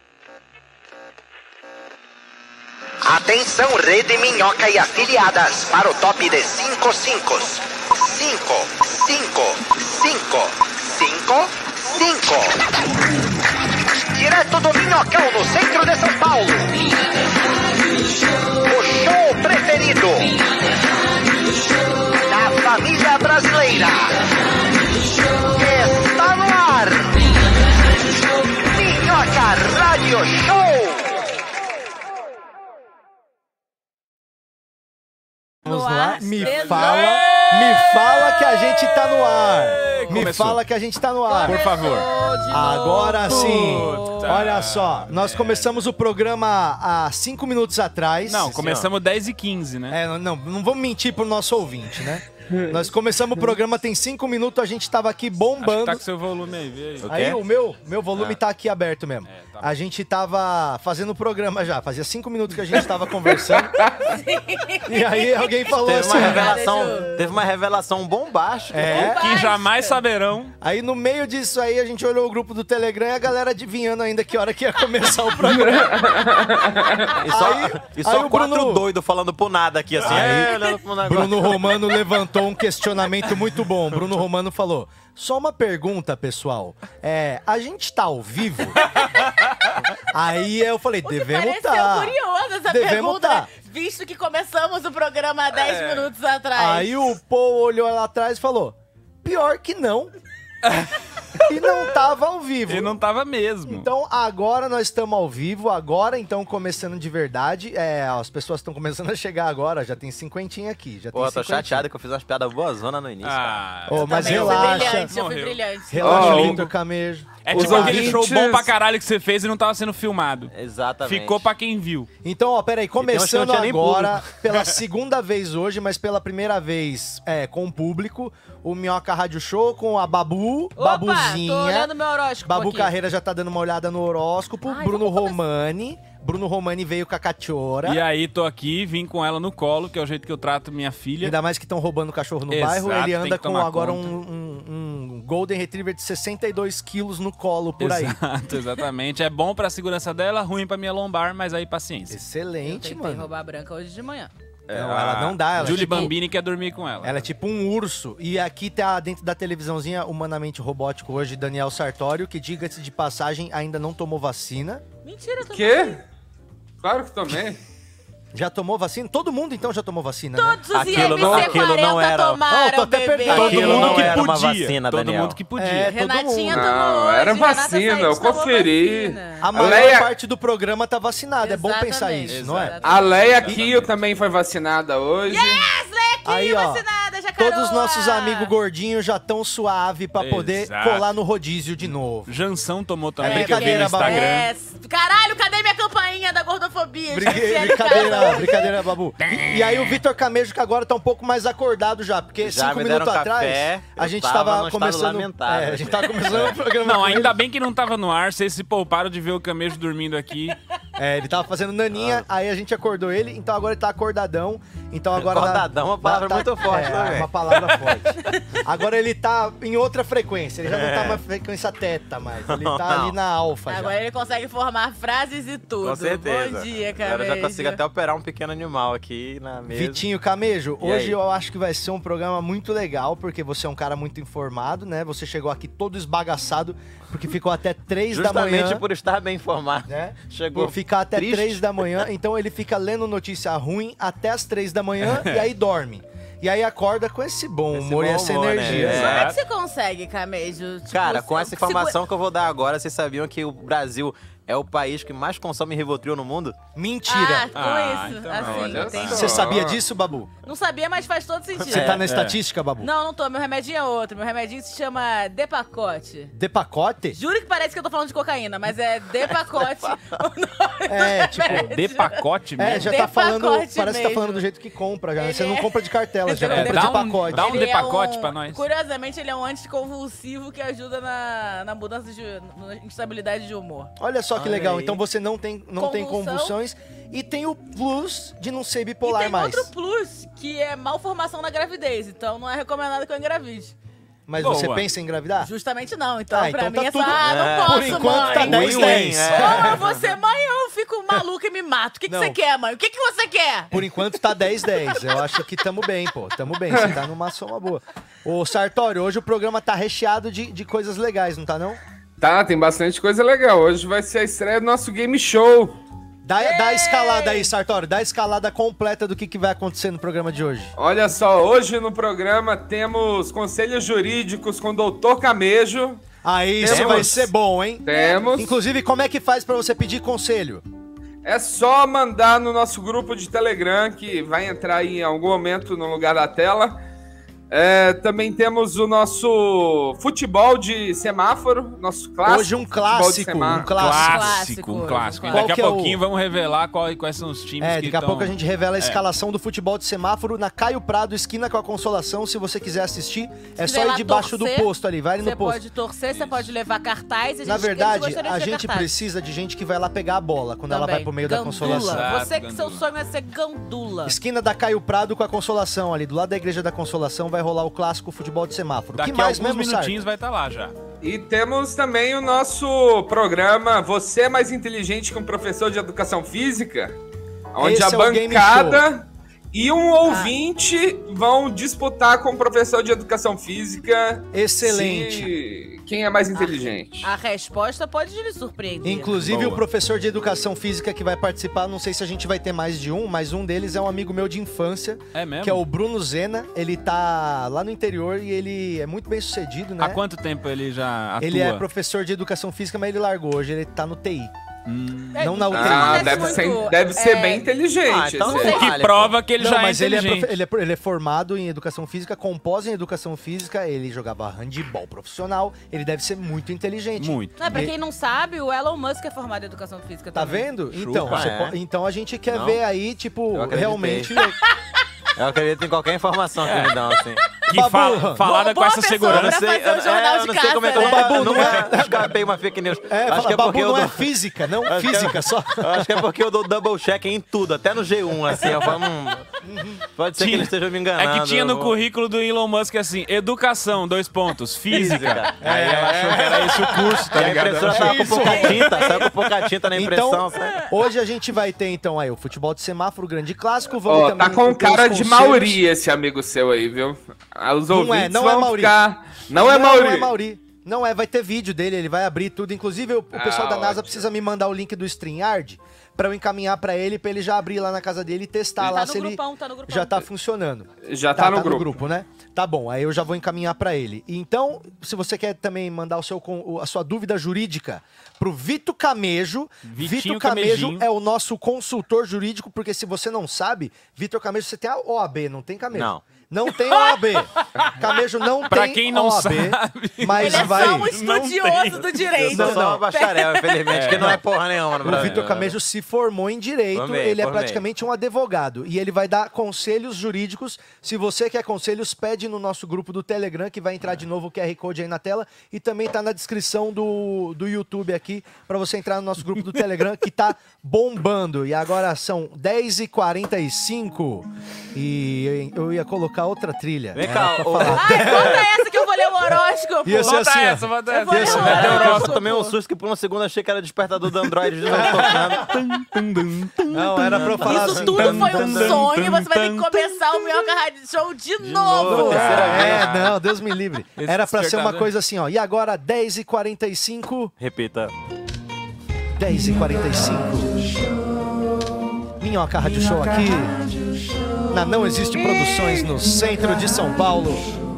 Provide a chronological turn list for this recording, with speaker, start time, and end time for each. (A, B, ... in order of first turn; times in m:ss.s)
0:03.0-0:12.6 A
0:14.1-0:16.8 A
0:18.7-0:20.4 A
0:22.3-0:24.2 A
0:25.5-0:27.2 A
0:28.6-0:31.2 A
0:35.7-0:37.4 B
0:35.7-0:41.6 C
0:36.4-0:37.8 D
0:39.5-0:40.6 D
0:40.0-0:40.2 B
0:41.3-0:44.4 B
0:41.5-0:42.1 D
0:42.5-0:48.5 C
0:43.3-0:45.9 D
0:48.3-0:50.0 D
0:48.5-0:48.9 E
0:49.9-0:56.0 C
0:55.6-0:57.1 D
0:57.0-0:57.4 E
0:57.1-1:03.7 C
0:59.3-0:59.8 D
1:04.0-1:07.2 B
1:04.9-1:06.6 C
1:05.8-1:09.1 E
1:08.7-1:09.3 C
1:08.8-1:10.0 B
1:09.0-1:10.5 D
1:10.6-1:16.1 C
1:15.5-1:17.1 F
1:17.1-1:21.6 E
1:17.3-1:18.8 C
1:20.0-1:28.8 C
1:30.1-1:32.1 C
1:31.0-1:37.1 B
1:32.7-1:33.5 C
1:35.6-1:36.0 E
1:36.6-1:40.1 C
1:41.5-1:43.0 C
1:42.7-1:43.9 D
1:43.6-1:51.9 C
1:51.1-1:53.6 E
1:53.2-1:56.7 D
1:53.9-1:55.1 C
1:53.9-1:56.6 B
1:55.9-1:58.2 C
1:56.0-1:56.7 F
1:57.4-2:00.5 D
1:57.5-1:58.7 F
2:00.5-2:01.5 E
2:01.0-2:02.1 D
2:02.2-2:11.9 C
2:03.0-2:04.2 E
2:10.8-2:12.9 B
2:12.4-2:18.0 C
2:14.6-2:15.4 B
2:17.8-2:21.4 D
2:21.2-2:28.2 C
2:22.5-2:24.1 D
2:27.8-2:32.2 D
2:32.1-2:33.3 C
2:32.6-2:34.3 B
2:34.7-2:37.3 D
2:34.7-2:36.1 C
2:35.6-2:36.1 B
2:37.0-2:44.8 C
2:45.0-2:46.0 B
2:45.5-2:46.0 F
2:46.8-2:47.6 F
2:48.3-2:51.6 C
2:50.4-2:54.2 B
2:50.7-2:52.4 E
2:52.5-2:54.3 C
2:53.3-2:55.4 E
2:53.6-2:55.9 D
2:55.6-2:56.6 C
2:55.9-2:59.8 B
2:56.5-3:00.1 F
2:59.4-3:02.8 C
3:01.4-3:03.6 B
3:02.3-3:04.0 D
3:02.8-3:05.7 F
3:05.3-3:08.5 B
3:06.2-3:06.8 C
3:07.4-3:12.3 C
3:10.2-3:11.1 D
3:12.3-3:14.5 D
3:13.2-3:14.3 C
3:13.2-3:18.8 B
3:17.1-3:27.4 C
3:19.3-3:19.5 D
3:22.4-3:26.6 E
3:26.8-3:30.6 D
3:31.0-3:44.0 C
3:31.9-3:32.3 E
3:35.2-3:37.3 E
3:40.6-3:41.2 E
3:42.5-3:43.2 E
3:43.7-3:47.8 B
3:45.8-3:50.0 E
3:49.7-3:58.8 C
3:50.8-3:51.2 E
3:58.1-4:02.1 E
3:59.9-4:09.1 C
4:05.0-4:05.5 D
4:07.7-4:09.3 E
4:08.7-4:09.4 D
4:09.0-4:12.0 B
4:10.9-4:16.6 E
4:16.8-4:17.5 C
4:17.1-4:19.5 B
4:17.6-4:19.2 D
4:18.4-4:19.8 F
4:19.1-4:20.3 C
4:20.4-4:22.0 B
4:21.6-4:22.3 E
4:21.7-4:22.9 C
4:22.1-4:22.4 D
4:22.8-4:26.3 B
4:26.3-4:27.2 C
4:27.1-4:34.4 B
4:30.9-4:31.7 C
4:31.5-4:32.9 D
4:32.6-4:37.4 C
4:35.2-4:43.9 B
4:36.4-4:38.6 D
4:44.0-4:49.7 C
4:44.3-4:45.0 E
4:45.8-4:46.6 B
4:49.0-4:53.7 B
4:54.3-4:55.5 C
4:54.4-4:54.8 D
4:55.4-5:03.8 B
4:56.3-4:59.8 C
4:57.1-5:00.0 E
5:02.1-5:02.4 C
5:03.7-5:11.8 C
5:04.9-5:05.2 B
5:12.2-5:15.8 F
5:16.2-5:20.7 C
5:16.4-5:17.5 B
5:20.8-5:26.0 F
5:26.2-5:27.8 C
5:26.6-5:27.2 F
5:26.7-5:27.3 E
5:27.8-5:28.5 F
5:27.9-5:28.3 B
5:28.4-5:30.6 C
5:31.2-5:36.8 F
5:37.5-5:43.8 F
5:42.2-5:44.4 C
5:43.8-5:49.0 D
5:43.9-5:45.5 B
5:45.3-5:46.0 C
5:47.6-5:55.6 C
5:53.6-5:58.9 B
5:56.1-5:56.5 D
5:57.4-6:02.1 C
6:00.7-6:04.2 B
6:01.6-6:02.8 D
6:04.0-6:10.0 C
6:09.0-6:10.7 D
6:11.0-6:17.0 F
6:17.5-6:27.1 F
6:17.6-6:18.8 C
6:20.0-6:20.4 B
6:24.3-6:25.3 C
6:26.4-6:29.2 B
6:28.8-6:40.0 C
6:29.3-6:29.6 D
6:35.1-6:35.6 D
6:39.8-6:41.6 D
6:41.2-6:44.3 C
6:44.7-6:45.2 D
6:45.1-6:47.5 B
6:45.2-6:46.4 C
6:45.5-6:48.6 F
6:47.8-6:49.2 E
6:48.2-6:48.7 B
6:48.4-6:50.4 D
6:49.4-6:57.8 C
6:57.0-6:57.4 D
6:57.4-7:00.5 B
7:00.1-7:04.3 C
7:00.7-7:01.3 D
7:01.0-7:01.6 E
7:02.3-7:02.6 E
7:03.3-7:04.2 E
7:05.2-7:07.2 E
7:06.4-7:06.8 D
7:07.5-7:09.4 D
7:07.5-7:08.3 C
7:08.2-7:11.5 B
7:09.1-7:14.1 E
7:10.7-7:12.1 C
7:12.9-7:16.0 C
7:14.6-7:19.3 E
7:19.4-7:19.8 C
7:20.0-7:21.8 E
7:20.2-7:28.5 D
7:24.7-7:30.6 E
7:25.4-7:28.7 C
7:28.1-7:29.1 B
7:29.7-7:35.6 C
7:30.3-7:30.7 B
7:33.8-7:40.1 F
7:37.7-7:38.8 C
7:39.4-8:10.9 C
7:43.1-7:44.0 F
7:48.6-7:50.1 B
7:50.8-7:51.8 F
7:59.7-8:00.9 D
8:05.7-8:06.0 E
8:06.5-8:07.2 B
8:08.5-8:12.1 D
8:10.1-8:13.7 B
8:12.2-8:15.6 E
8:12.3-8:12.8 C
8:13.7-8:14.2 D
8:14.8-8:38.4 C
8:16.7-8:17.6 E
8:36.9-8:38.4 E
8:37.6-8:40.2 B
8:39.8-8:41.5 C
8:40.0-8:42.2 D
8:40.9-8:42.6 B
8:41.2-8:46.0 E
8:44.7-8:45.4 C
8:44.8-8:50.5 D
8:46.7-8:48.3 C
8:47.0-8:48.8 E
8:47.4-8:52.6 B
8:51.4-8:53.2 E
8:51.9-8:57.3 C
8:52.1-8:53.1 D
8:54.0-8:54.9 D
8:57.4-8:57.9 E
8:59.2-9:00.5 C
9:02.2-9:03.5 C
9:04.5-9:07.5 C